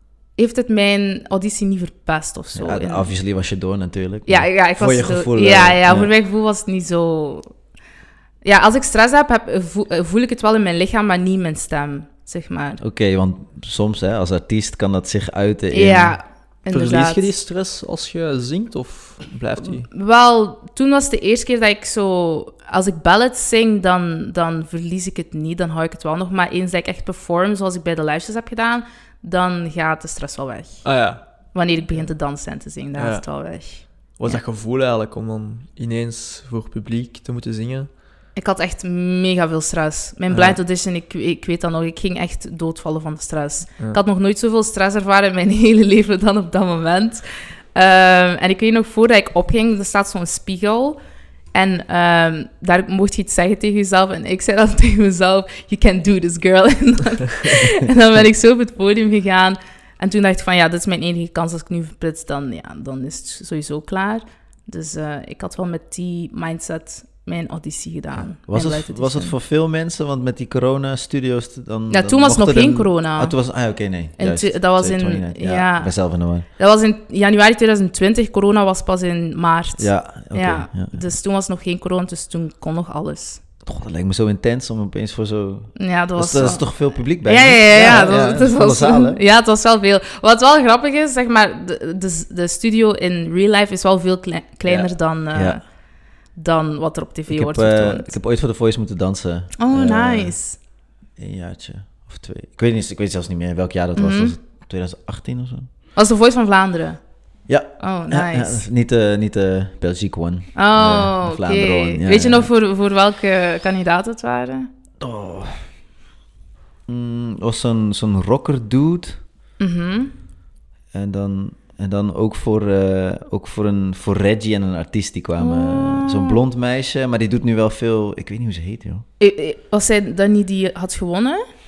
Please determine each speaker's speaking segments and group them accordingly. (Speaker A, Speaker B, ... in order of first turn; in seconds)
Speaker A: 0.4-3.1, 4.3-7.5, 8.4-12.8, 15.7-17.3, 19.6-30.9, 31.5-34.4, 38.4-47.2, 47.8-51.0, 51.5-69.3, 71.9-73.4, 74.2-76.0, 76.5-83.4, 85.8-86.7, 87.2-95.6, 96.3-98.1, 99.6-100.6, 104.0-104.4, 106.0-107.0, 107.8-108.6, 110.5-114.7, 119.6-120.1, 125.4-126.4, 129.2-131.4
Speaker B: 2.5-6.1, 12.8-16.2, 68.1-76.5, 79.8-81.0, 83.7-89.2, 94.7-95.6, 97.3-100.4, 101.2-105.7, 107.5-112.5, 115.0-115.6, 116.9-119.2, 120.9-129.0
Speaker C: 16.7-19.9, 30.8-31.2, 33.0-37.9, 40.3-40.6